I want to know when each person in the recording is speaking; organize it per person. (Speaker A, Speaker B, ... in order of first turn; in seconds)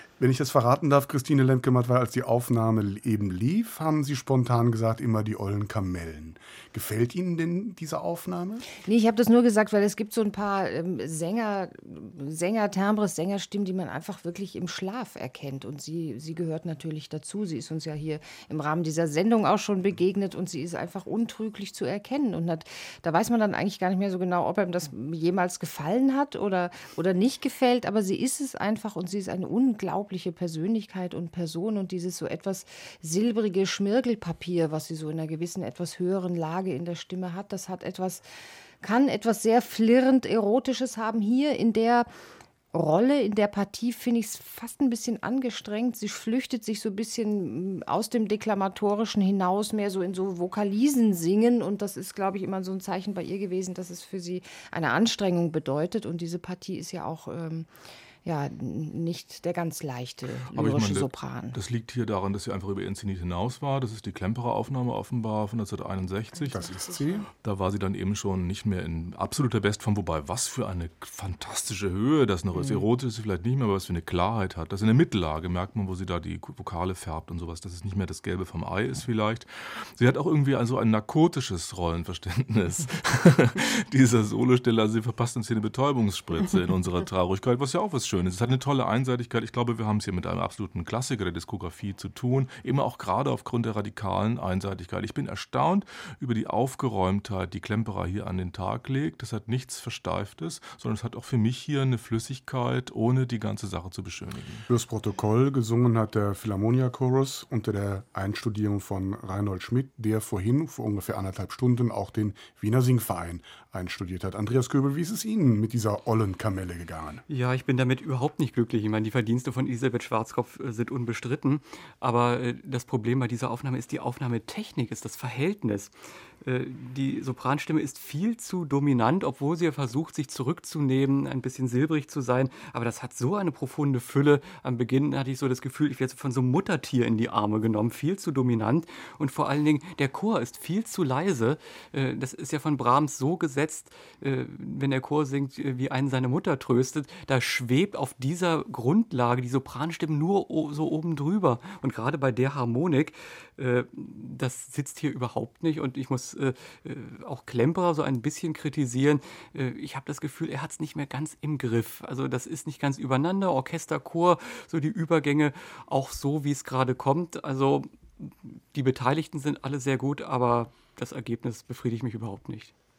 Speaker A: 0.2-8.7, 66.4-67.3, 104.7-117.2
Speaker B: 8.8-38.2, 38.8-42.1, 42.7-57.7, 58.2-61.6, 66.5-67.3
Speaker C: 60.5-66.7, 67.3-104.7
Speaker D: 117.3-172.7